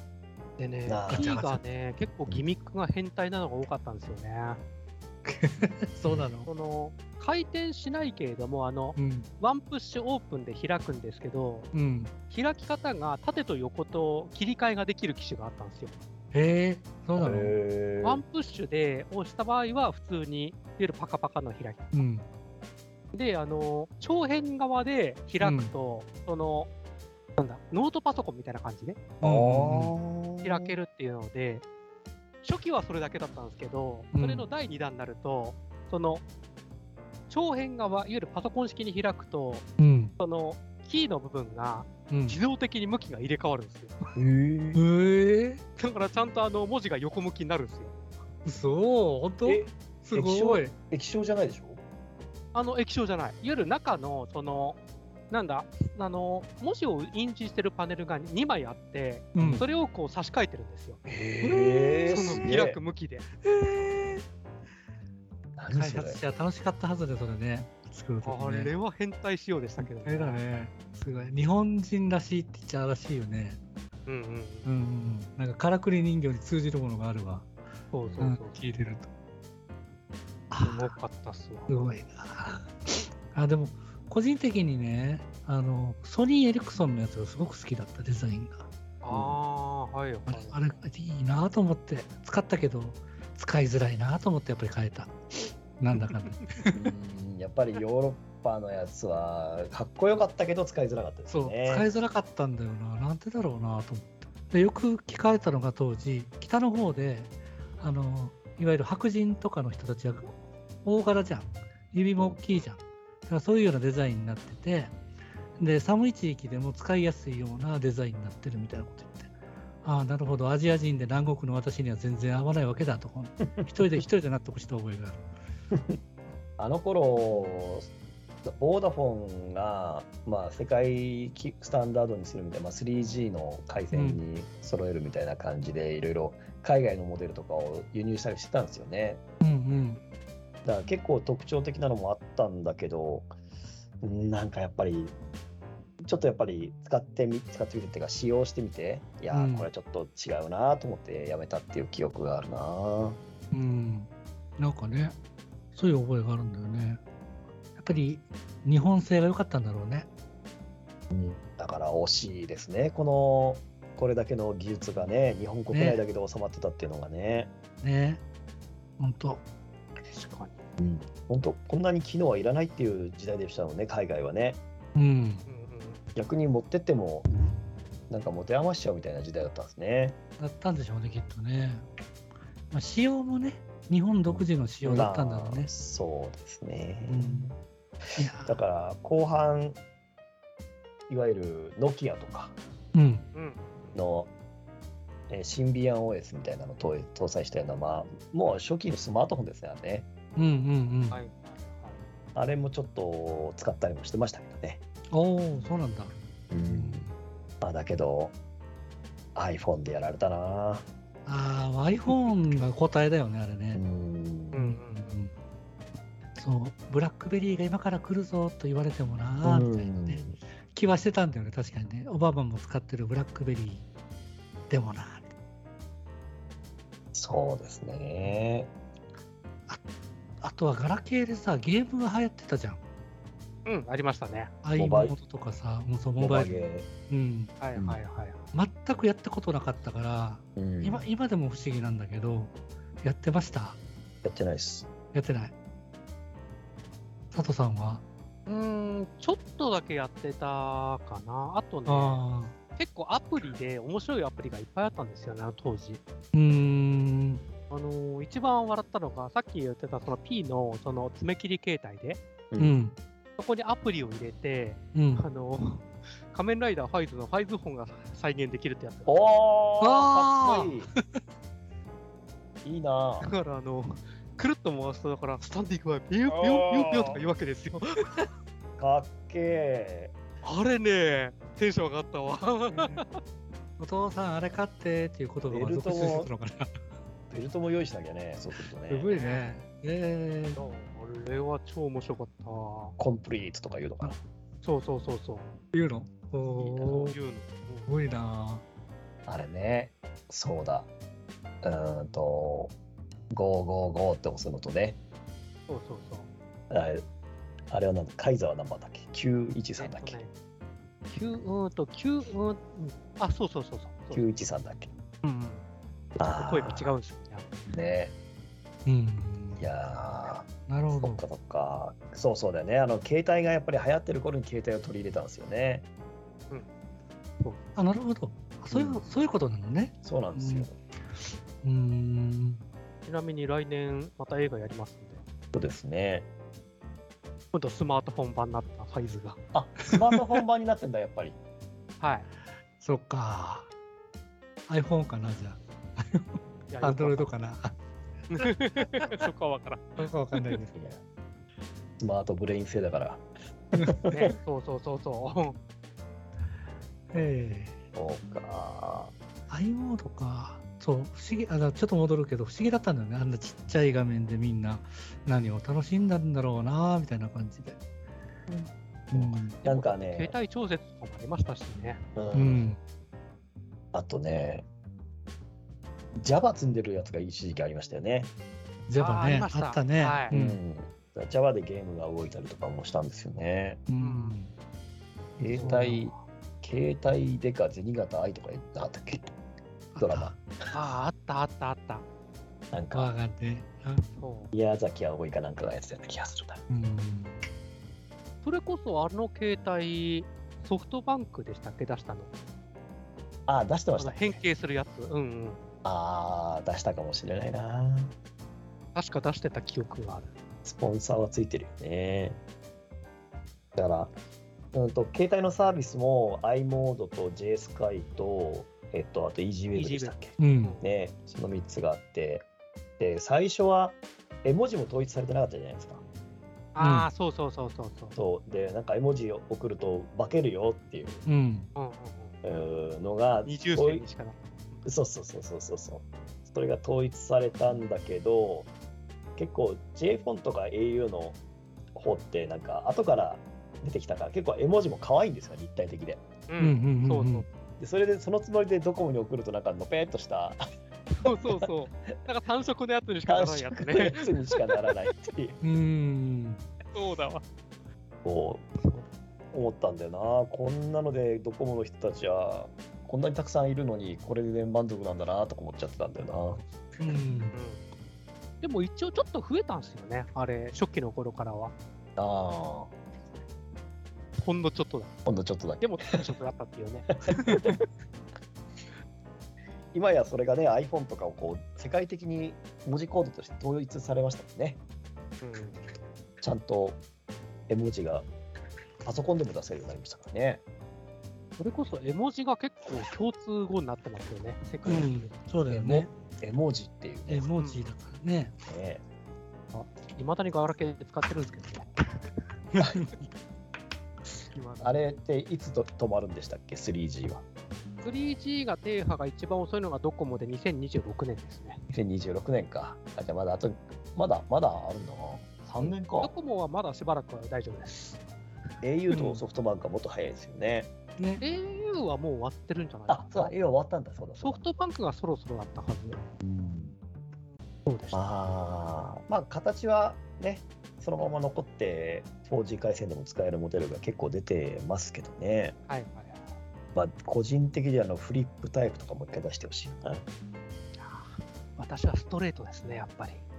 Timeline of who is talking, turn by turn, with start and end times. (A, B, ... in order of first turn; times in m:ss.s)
0:00.6-0:04.6 A
0:00.9-0:01.3 B
0:01.1-0:01.6 C
0:05.3-0:06.5 C
0:06.5-0:11.7 A
0:09.0-0:09.3 C
0:11.7-0:12.1 C
0:12.3-0:16.0 A
0:16.3-0:17.6 C
0:17.2-0:18.2 B
0:18.0-0:21.9 A
0:21.9-0:22.2 C
0:23.1-0:26.7 A
0:25.4-0:25.7 C
0:27.4-0:29.1 A
0:29.2-0:30.0 C
0:29.2-0:30.8 B
0:30.4-0:31.6 A
0:32.4-0:36.2 A
0:34.1-0:34.4 C
0:37.3-0:39.7 A
0:39.8-0:40.1 C
0:40.2-0:44.0 A
0:42.1-0:42.4 C
0:44.2-0:44.8 B
0:44.8-0:45.6 C
0:45.8-0:47.9 A
0:48.4-0:50.7 C
0:49.4-0:51.8 B
0:52.5-0:54.8 A
0:55.3-1:03.3 A
0:59.4-0:59.6 C
0:59.4-0:59.7 B
1:01.0-1:02.8 B
1:02.1-1:02.5 C
1:03.4-1:04.2 C
1:05.6-1:06.2 B
1:05.7-1:08.8 C
1:08.2-1:10.4 A
1:09.8-1:13.6 C
1:14.1-1:14.7 A
1:14.6-1:17.5 C
1:17.9-1:18.6 A
1:18.0-1:18.3 B
1:18.2-1:19.1 C
1:20.5-1:21.0 C
1:20.6-1:21.8 A
1:21.7-1:28.7 C
1:29.0-1:30.6 A
1:29.1-1:29.4 B
1:30.3-1:35.2 C
1:35.8-1:36.8 C
1:36.7-1:41.9 B
1:41.3-1:55.0 C
1:55.6-1:59.3 C
1:59.8-2:05.2 C
2:05.7-2:06.0 B
2:06.6-2:07.9 B
2:08.4-2:19.2 B
2:13.9-2:14.2 C
2:19.4-2:20.0 C
2:20.6-2:23.3 B
2:24.0-2:25.2 B
2:26.0-2:33.2 B
2:29.3-2:29.7 C
2:33.5-2:35.2 C
2:35.7-2:37.0 C
2:37.8-2:40.1 C
2:41.1-2:47.5 B
2:45.7-2:46.0 C
2:47.8-2:48.2 C
2:49.0-2:49.4 C
2:50.1-2:50.6 A
2:50.8-2:54.6 B
2:55.0-2:55.4 C
2:55.5-2:56.0 A
2:56.2-2:57.3 B
2:58.1-3:00.2 B
3:00.4-3:01.8 C
3:02.7-3:05.7 C
3:04.3-3:07.6 B
3:07.1-3:07.5 C
3:08.2-3:08.6 C
3:08.4-3:09.8 B
3:11.1-3:12.6 B
3:12.9-3:13.3 C
3:13.3-3:14.0 A
3:13.9-3:14.3 B
3:15.3-3:20.1 B
3:20.4-3:21.2 C
3:21.1-3:22.0 A
3:22.4-3:24.8 B
3:25.1-3:26.1 C
3:26.5-3:27.1 B
3:26.7-3:27.1 C
3:27.6-3:28.4 B
3:29.4-3:30.9 B
3:31.3-3:33.8 C
3:33.7-3:34.7 B
3:34.5-3:35.2 A
3:34.6-3:35.3 C
3:36.4-3:43.9 C
3:39.4-3:40.4 B
3:44.7-3:45.3 C
3:47.1-3:48.7 B
3:50.4-3:52.8 C
3:53.7-3:54.5 A
3:54.6-3:56.6 C
3:54.8-3:55.2 B
3:56.2-3:56.9 B
3:57.1-3:57.5 C
3:57.6-3:58.5 A
3:57.7-3:58.0 B
3:58.5-4:03.8 C
4:00.6-4:01.1 B
4:04.2-4:04.9 B
4:05.1-4:05.5 C
4:07.3-4:08.0 C
4:08.5-4:12.2 A
4:11.9-4:12.5 C
4:12.8-4:16.0 A
4:16.3-4:17.4 C
4:17.7-4:22.2 A
4:22.5-4:22.8 B
4:22.6-4:23.0 C
4:23.4-4:29.2 A
4:24.9-4:25.2 C
4:29.1-4:30.9 B
4:29.8-4:31.2 C
4:32.6-4:33.3 B
4:33.2-4:38.2 A
4:36.3-4:37.2 B
4:38.8-4:40.1 B
4:40.4-4:43.2 A
4:42.7-4:43.0 C
4:43.8-4:46.7 C
4:45.5-4:46.3 B
4:47.3-4:49.1 B
4:48.9-4:50.6 C
4:49.1-4:49.6 A
4:50.6-4:53.0 A
4:53.0-4:54.2 B
4:54.6-4:55.5 A
4:55.7-4:57.2 C
4:56.6-4:57.9 A
4:56.8-4:57.1 B
4:57.9-4:58.6 C
4:59.3-5:00.9 B
5:01.6-5:02.7 B
5:03.3-5:05.0 B
5:05.7-5:06.3 A
5:06.7-5:07.0 B
5:07.7-5:10.2 B
5:09.8-5:10.3 A
5:11.1-5:14.3 A
5:14.1-5:14.9 B
5:15.2-5:15.6 A
5:16.2-5:17.0 B
5:16.2-5:17.5 A
5:17.7-5:18.1 B
5:18.9-5:19.6 C
5:19.6-5:25.8 B
5:20.7-5:21.2 C
5:27.8-5:30.7 C
5:28.7-5:29.1 B
5:30.0-5:30.8 B
5:31.6-5:32.6 C
5:33.0-5:35.2 A
5:35.5-5:36.3 B
5:37.5-5:39.4 A
5:39.5-5:41.4 B
5:42.0-5:42.3 A
5:42.8-5:43.7 C
5:44.7-5:47.8 C
5:46.7-5:47.3 A
5:48.3-5:50.6 A
5:48.4-5:48.8 C
5:50.0-5:50.8 C
5:50.8-5:51.0 B
5:52.0-5:54.3 B
5:54.1-5:55.6 A
5:57.1-5:57.8 C
5:58.0-5:59.1 B
5:59.5-6:07.8 C
6:08.5-6:10.4 B
6:09.1-6:09.6 C
6:09.6-6:12.0 A
6:12.2-6:12.7 B
6:12.3-6:12.8 C
6:13.9-6:14.7 B
6:16.2-6:18.3 B
6:18.9-6:20.6 C
6:19.0-6:20.4 A
6:20.3-6:23.8 B
6:23.9-6:24.5 C
6:24.0-6:24.4 A
6:25.4-6:29.3 B
6:25.5-6:26.1 C
6:25.5-6:25.8 A
6:29.9-6:30.4 C
6:30.0-6:30.8 B
6:30.7-6:32.0 A
6:32.7-6:33.1 B
6:32.9-6:34.1 C
6:34.2-6:34.5 A
6:34.5-6:36.6 B
6:36.7-6:37.3 C
6:38.4-6:42.3 A
6:43.5-6:44.4 B
6:44.0-6:45.7 A
6:45.8-6:48.1 B
6:49.0-6:50.3 A
6:50.6-6:52.4 B
6:53.8-6:54.1 B
6:54.7-7:02.5 B
6:59.7-7:00.9 A
7:00.4-7:00.8 C
7:03.0-7:06.0 B
7:06.8-7:08.2 A
7:06.8-7:07.1 C
7:08.2-7:11.2 B
7:11.3-7:11.7 C
7:11.8-7:12.4 A
7:12.4-7:14.0 B
7:13.4-7:14.8 A
7:14.8-7:18.7 B
7:19.4-7:21.4 B
7:22.0-7:26.2 B
7:26.5-7:27.5 A
7:26.6-7:27.5 C
7:27.8-7:30.6 B
7:31.1-7:34.3 A
7:31.2-7:31.7 B
7:33.3-7:35.6 B
7:35.6-7:36.6 C
7:36.9-7:37.4 A
7:38.2-7:38.7 B
7:38.8-7:39.0 A
7:39.5-7:46.6 B
7:47.0-7:47.6 C
7:47.6-7:47.8 A
7:48.6-7:51.7 A
7:52.2-7:52.9 B
7:54.4-7:55.1 A
7:55.3-7:56.3 B
7:55.8-7:57.6 A
7:57.2-7:57.8 B
7:59.9-8:04.8 B
8:05.4-8:05.8 A
8:06.4-8:07.0 B
8:07.7-8:08.3 B
8:09.0-8:10.6 B
8:11.6-8:15.3 A
8:14.9-8:16.1 C
8:15.7-8:17.5 B
8:17.3-8:18.6 C
8:17.6-8:17.9 A
8:18.7-8:19.0 B
8:19.7-8:21.9 A
8:22.7-8:23.3 C
8:22.8-8:23.1 B
8:24.5-8:25.1 A
8:24.8-8:27.4 B
8:28.0-8:31.8 A
8:31.9-8:36.3 B
8:35.8-8:38.2 A
8:38.8-8:40.9 B
8:39.1-8:39.4 C
8:41.2-8:41.4 C
8:41.4-8:43.6 A
8:43.1-8:44.6 B
8:44.4-8:46.2 A
8:46.4-8:47.0 B
8:47.9-8:48.2 A
8:48.1-8:55.8 B
8:55.9-8:56.5 A
8:56.9-9:00.2 B
9:01.0-9:03.4 A